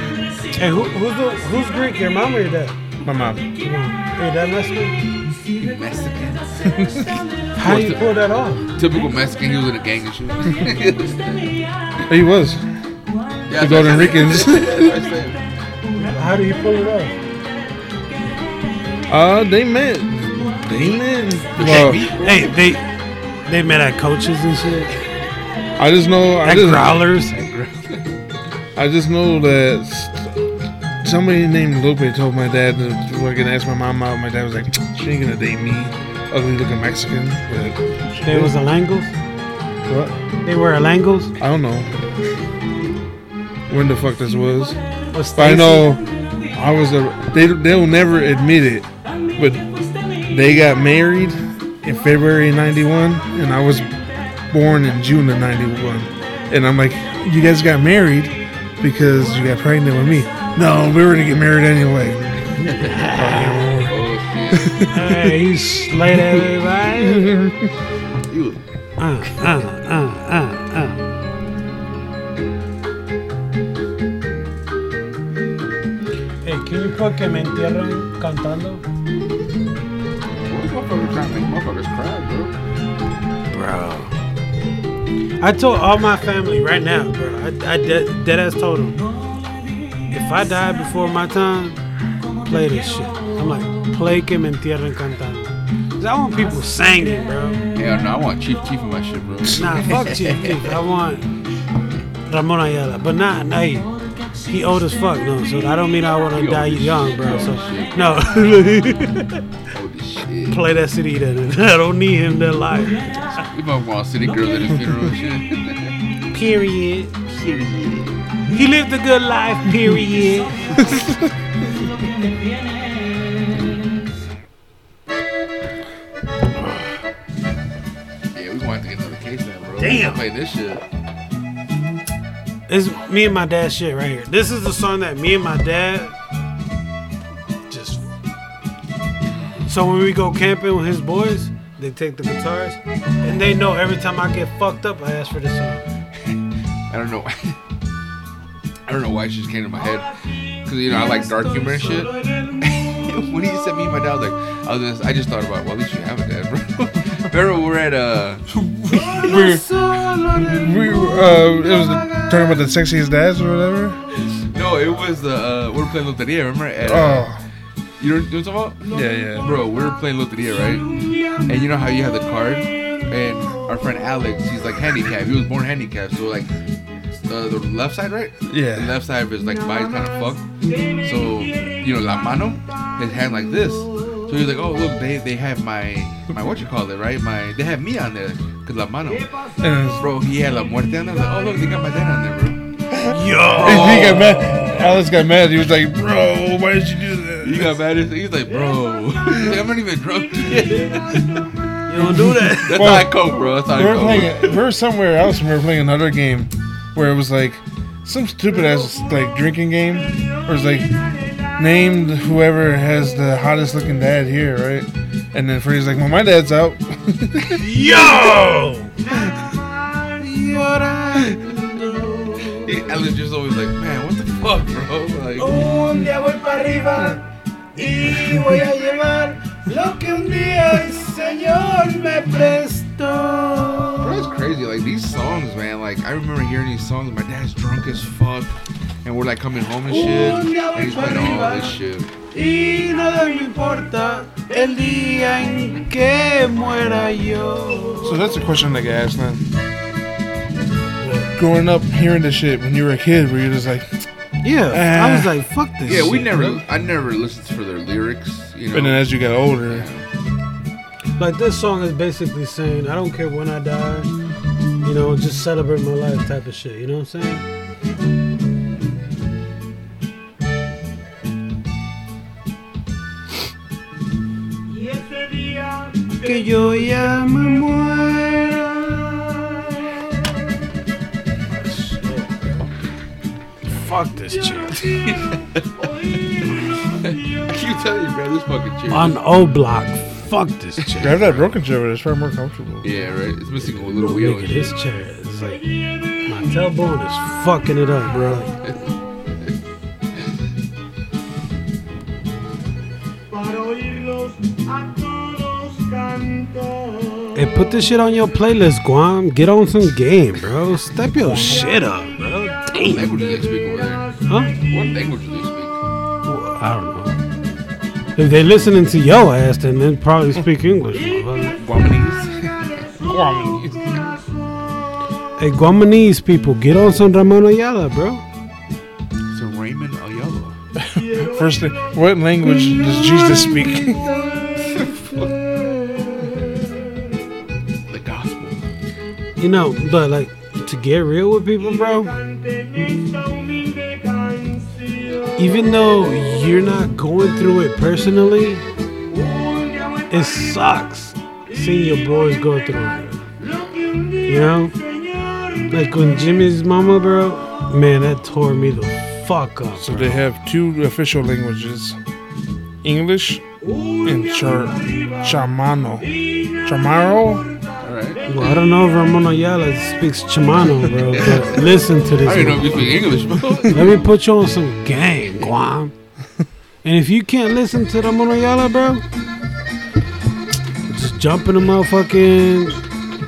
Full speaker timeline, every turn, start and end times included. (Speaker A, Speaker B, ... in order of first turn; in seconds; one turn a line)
Speaker A: 0.5-2.8
Speaker B: 3.0-3.5
Speaker A: 3.6-5.0
Speaker C: 5.6-8.0
Speaker B: 6.7-7.0
Speaker A: 7.6-8.7
Speaker C: 8.8-11.4
Speaker B: 12.1-12.7
Speaker C: 13.5-15.4
Speaker B: 13.5-15.0
Speaker A: 16.0-17.2
Speaker B: 19.1-22.1
Speaker C: 21.5-22.5
Speaker A: 21.7-22.9
Speaker A: 23.5-24.9
Speaker B: 25.8-27.1
Speaker A: 26.4-27.4
Speaker C: 27.3-28.1
Speaker B: 28.8-30.5
Speaker B: 31.0-38.5
Speaker A: 38.2-39.1
Speaker B: 39.9-40.1
Speaker A: 40.4-41.3
Speaker B: 41.4-41.9
Speaker B: 43.7-44.8
Speaker A: 45.1-46.0
Speaker B: 45.4-49.7
Speaker B: 50.2-53.9
Speaker B: 54.5-62.4
Speaker C: 62.6-63.2
Speaker A: 62.6-64.0
Speaker B: 63.1-63.9
Speaker C: 63.8-64.8
Speaker B: 64.5-65.2
Speaker A: 64.9-67.4
Speaker B: 67.0-67.7
Speaker C: 68.3-68.6
Speaker A: 69.0-71.0
Speaker A: 76.4-78.8
Speaker C: 80.4-82.6
Speaker A: 83.5-84.1
Speaker A: 85.4-89.0
Speaker A: 90.1-91.8
Speaker A: 92.5-97.6
Speaker C: 97.8-100.7
Speaker A: 99.5-101.3
Speaker A: 102.3-103.9
Speaker A: 104.4-109.4
Speaker C: 106.3-108.0
Speaker C: 109.7-110.6
Speaker A: 110.5-113.5
Speaker C: 113.5-116.0
Speaker A: 116.3-117.2
Speaker C: 117.3-118.2
Speaker A: 118.5-121.0
Speaker B: 120.9-121.3
Speaker C: 128.3-130.8
Speaker A: 129.8-130.2
Speaker A: 132.7-136.2
Speaker A: 137.7-138.1
Speaker A: 139.7-145.9
Speaker C: 146.2-147.6
Speaker C: 148.9-150.1
Speaker C: 150.6-152.1
Speaker A: 152.2-152.6
Speaker C: 152.6-158.5
Speaker A: 158.9-162.3
Speaker B: 159.1-159.6
Speaker B: 160.5-164.0
Speaker C: 164.4-167.3
Speaker B: 166.8-167.4
Speaker C: 168.0-176.5
Speaker B: 168.9-169.5
Speaker C: 177.2-189.3
Speaker B: 178.5-178.9
Speaker B: 189.6-190.1
Speaker C: 190.0-192.7
Speaker B: 193.0-197.8
Speaker A: 193.1-194.7
Speaker C: 193.6-194.7
Speaker C: 197.4-201.4
Speaker A: 201.9-203.0
Speaker C: 202.0-204.6
Speaker B: 202.7-217.6
Speaker A: 217.5-219.1
Speaker A: 220.1-222.7
Speaker C: 222.6-225.7
Speaker A: 225.4-234.2
Speaker C: 234.0-242.1
Speaker A: 239.9-241.8
Speaker A: 242.3-248.2
Speaker B: 248.0-249.4
Speaker A: 251.0-251.3
Speaker B: 251.4-254.1
Speaker A: 254.4-256.6
Speaker B: 254.7-255.3
Speaker C: 255.8-259.1
Speaker B: 258.7-259.9
Speaker C: 259.7-260.1
Speaker A: 261.2-264.1
Speaker A: 264.8-267.4
Speaker A: 276.0-279.8
Speaker A: 281.5-282.6
Speaker A: 283.6-285.0
Speaker C: 285.0-285.7
Speaker C: 286.9-289.2
Speaker A: 288.9-291.2
Speaker C: 290.9-291.3
Speaker B: 291.0-292.9
Speaker C: 292.8-294.7
Speaker A: 294.0-295.6
Speaker A: 296.2-298.6
Speaker C: 298.1-298.9
Speaker A: 307.3-313.2
Speaker B: 311.2-311.7
Speaker C: 312.8-314.1
Speaker A: 314.3-314.6
Speaker C: 314.6-315.8
Speaker A: 316.2-317.2
Speaker A: 318.2-321.6
Speaker C: 321.6-322.9
Speaker B: 323.1-324.0
Speaker A: 325.4-328.2
Speaker C: 329.3-330.6
Speaker B: 330.8-334.1
Speaker C: 334.6-335.3
Speaker C: 337.9-338.6
Speaker A: 339.4-342.2
Speaker A: 345.4-348.7
Speaker A: 350.1-353.3
Speaker A: 354.2-354.8
Speaker A: 355.7-360.2
Speaker B: 359.8-362.0
Speaker B: 362.8-363.4
Speaker B: 364.0-367.5
Speaker C: 367.8-368.2
Speaker A: 368.3-373.0
Speaker C: 371.0-374.0
Speaker A: 373.7-375.9
Speaker A: 376.8-379.0
Speaker A: 380.9-382.8